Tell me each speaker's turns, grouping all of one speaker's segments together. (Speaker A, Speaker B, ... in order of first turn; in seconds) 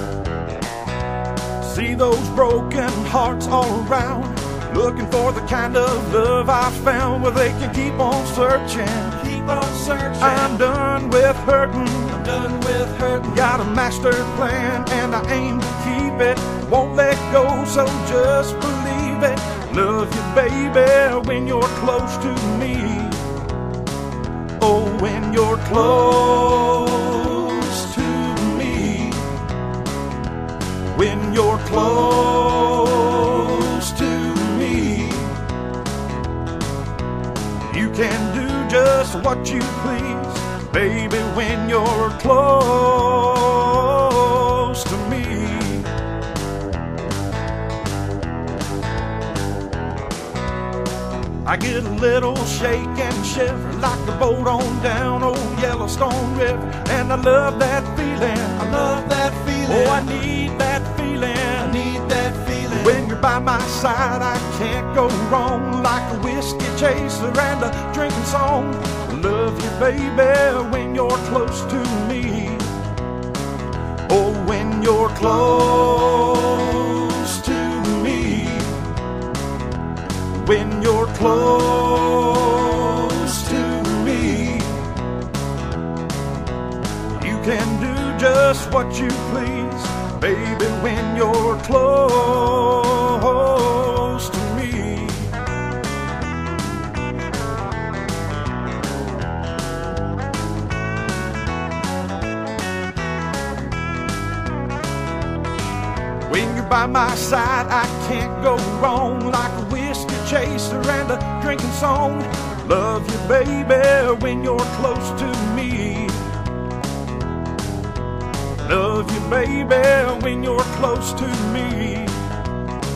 Speaker A: 1.6-9.3, 10.2-23.2, 24.6-29.3, 30.9-35.4, 37.6-45.9, 51.4-59.0, 59.6-61.9, 62.7-72.8, 74.0-78.9, 80.3-84.8, 87.2-95.4, 106.2-116.3, 118.6-122.3
Speaker B: 9.2-10.5, 12.1-13.1, 58.6-60.0, 61.6-63.0